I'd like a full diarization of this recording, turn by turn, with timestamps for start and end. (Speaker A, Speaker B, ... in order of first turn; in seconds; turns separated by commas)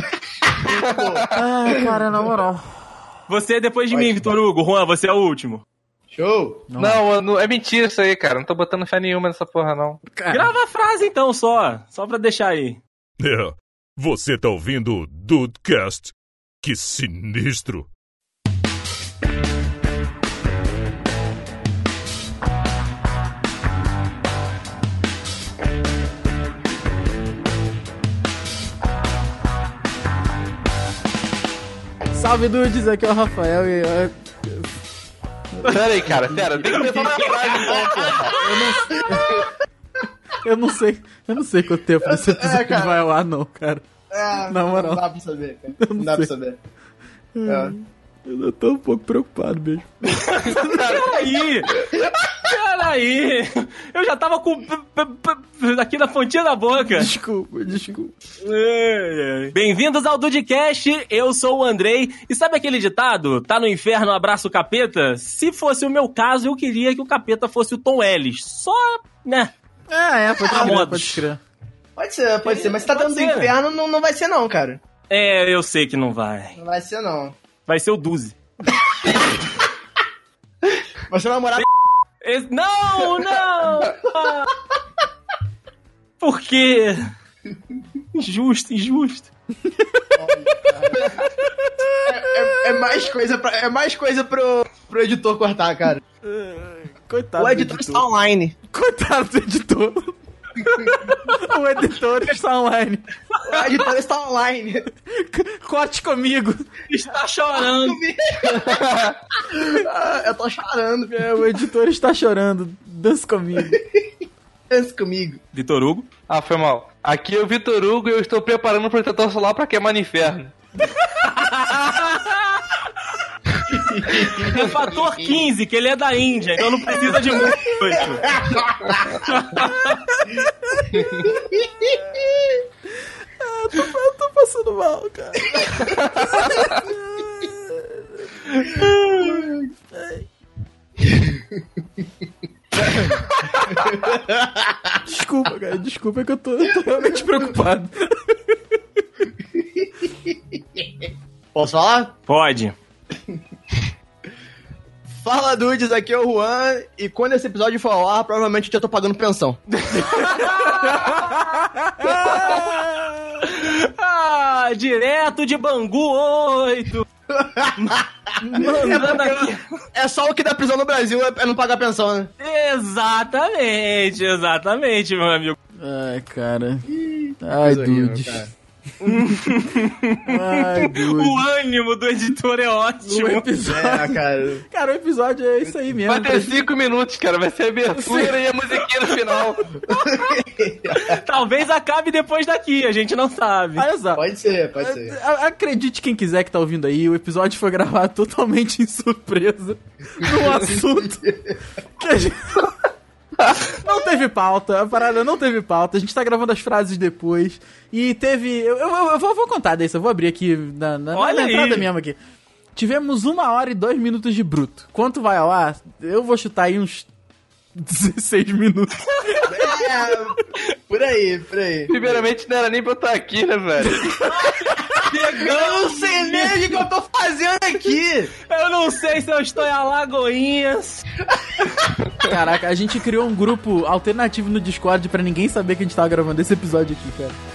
Speaker A: 0.4-2.3, Speaker B: 0.7-1.4, Speaker C: 1.3-2.6, Speaker D: 3.3-5.6, Speaker A: 3.9-4.3, Speaker A: 6.1-6.7, Speaker C: 6.7-7.0, Speaker B: 6.8-10.0, Speaker C: 10.2-10.5, Speaker D: 10.3-12.8, Speaker E: 13.2-17.9, Speaker C: 32.1-34.7, Speaker C: 35.5-36.8, Speaker D: 35.6-35.9, Speaker B: 35.7-38.3, Speaker D: 36.7-38.8, Speaker A: 36.8-39.5, Speaker C: 38.3-39.5, Speaker C: 40.4-43.8, Speaker A: 42.0-43.0, Speaker A: 44.1-46.6, Speaker C: 44.5-45.0, Speaker C: 45.8-46.3, Speaker C: 47.4-51.2, Speaker A: 47.5-47.8, Speaker D: 50.1-51.8, Speaker A: 51.7-52.5, Speaker D: 52.4-57.1, Speaker C: 56.9-58.1, Speaker D: 58.4-69.5, Speaker C: 69.9-71.4, Speaker A: 70.4-70.8, Speaker D: 70.4-71.2, Speaker A: 72.0-74.8, Speaker D: 72.5-73.5, Speaker D: 75.1-76.6, Speaker A: 76.6-77.4, Speaker D: 77.7-78.4, Speaker A: 81.1-81.7, Speaker D: 82.2-84.5, Speaker D: 86.2-87.1, Speaker D: 88.1-89.3, Speaker C: 89.6-93.0, Speaker A: 90.2-91.3, Speaker A: 92.0-96.0, Speaker C: 96.2-98.0, Speaker A: 97.4-98.6, Speaker C: 98.7-103.0, Speaker A: 100.6-101.1, Speaker D: 103.3-103.7, Speaker A: 103.5-104.9, Speaker C: 105.1-106.6, Speaker D: 106.9-108.0, Speaker A: 107.5-111.5, Speaker B: 108.5-109.2, Speaker C: 111.1-113.8, Speaker A: 113.6-114.1, Speaker A: 114.7-115.4, Speaker D: 115.5-116.1, Speaker B: 116.3-120.5, Speaker D: 121.0-122.9, Speaker A: 123.7-125.5, Speaker D: 124.2-130.3, Speaker A: 126.7-129.3, Speaker C: 130.7-131.0, Speaker A: 130.9-132.5, Speaker C: 133.4-139.3, Speaker A: 135.5-136.0, Speaker D: 138.5-139.3, Speaker A: 139.2-139.6, Speaker C: 139.9-140.3, Speaker A: 141.1-141.4, Speaker A: 142.8-145.0, Speaker C: 145.1-148.6, Speaker A: 146.6-147.2, Speaker A: 149.6-152.2, Speaker D: 152.3-152.7, Speaker A: 155.1-159.6, Speaker D: 159.7-161.3, Speaker C: 160.9-163.4, Speaker A: 162.2-162.6, Speaker D: 163.4-167.1, Speaker A: 167.3-172.3, Speaker D: 167.8-169.7, Speaker D: 172.4-175.6, Speaker C: 175.8-176.9, Speaker A: 176.9-178.5, Speaker C: 177.4-178.4, Speaker D: 179.0-183.5, Speaker C: 180.3-181.4, Speaker C: 183.1-186.6, Speaker A: 183.7-184.6, Speaker B: 186.0-189.8, Speaker C: 187.9-188.4, Speaker A: 189.8-191.2, Speaker D: 189.9-193.9, Speaker C: 193.8-194.3, Speaker A: 194.2-195.2, Speaker C: 194.8-202.9, Speaker A: 200.2-200.6, Speaker A: 201.2-201.5, Speaker C: 203.7-212.2, Speaker D: 211.1-211.9, Speaker C: 212.8-217.1, Speaker C: 217.8-219.7, Speaker D: 219.2-219.8, Speaker A: 219.5-222.3, Speaker B: 221.9-224.1, Speaker C: 223.8-224.3, Speaker D: 224.3-226.8, Speaker A: 224.9-228.3, Speaker D: 228.5-231.1, Speaker A: 231.3-232.1, Speaker C: 232.2-237.4